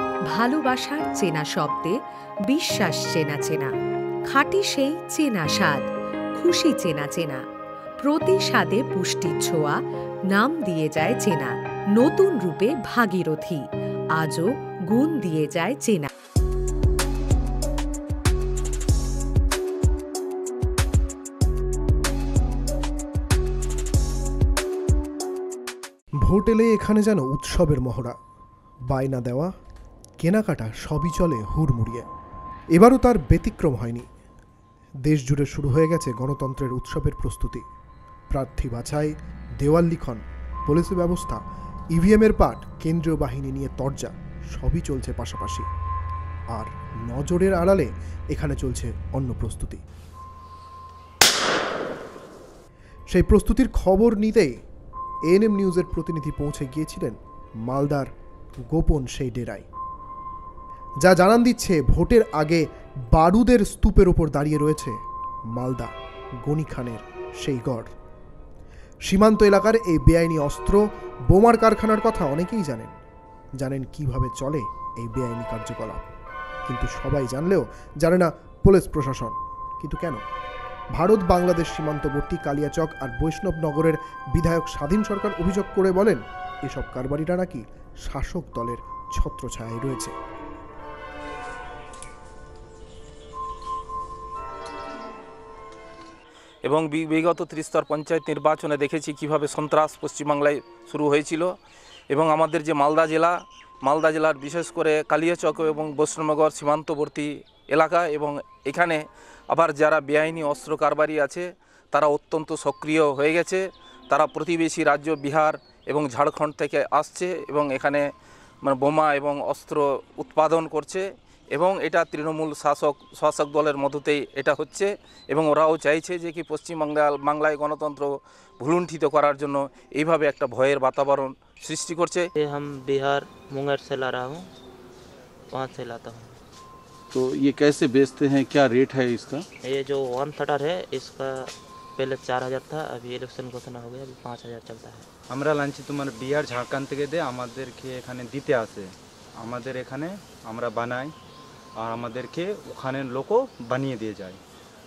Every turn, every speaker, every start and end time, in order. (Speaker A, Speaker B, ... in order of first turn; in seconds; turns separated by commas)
Speaker A: 0.3-1.9, Speaker A: 2.5-3.7, Speaker A: 4.3-5.8, Speaker A: 6.4-7.4, Speaker A: 8.0-9.8, Speaker A: 10.3-13.6, Speaker A: 14.2-16.1, Speaker B: 26.2-28.1, Speaker B: 28.9-29.5, Speaker B: 30.2-32.0, Speaker B: 32.7-34.0, Speaker B: 35.0-37.6, Speaker B: 38.3-45.7, Speaker B: 46.5-49.8, Speaker B: 53.1-54.5, Speaker B: 55.3-58.1, Speaker B: 58.7-59.6, Speaker B: 61.0-64.9, Speaker B: 65.5-67.9, Speaker B: 69.1-72.9, Speaker B: 73.6-76.1, Speaker B: 76.7-80.2, Speaker B: 80.9-90.1, Speaker C: 96.7-101.5, Speaker C: 102.1-118.0, Speaker C: 118.6-132.2, Speaker D: 132.3-134.5, Speaker D: 135.5-136.4, Speaker E: 137.1-139.4, Speaker D: 139.6-145.1, Speaker F: 145.3-151.1, Speaker F: 151.8-154.4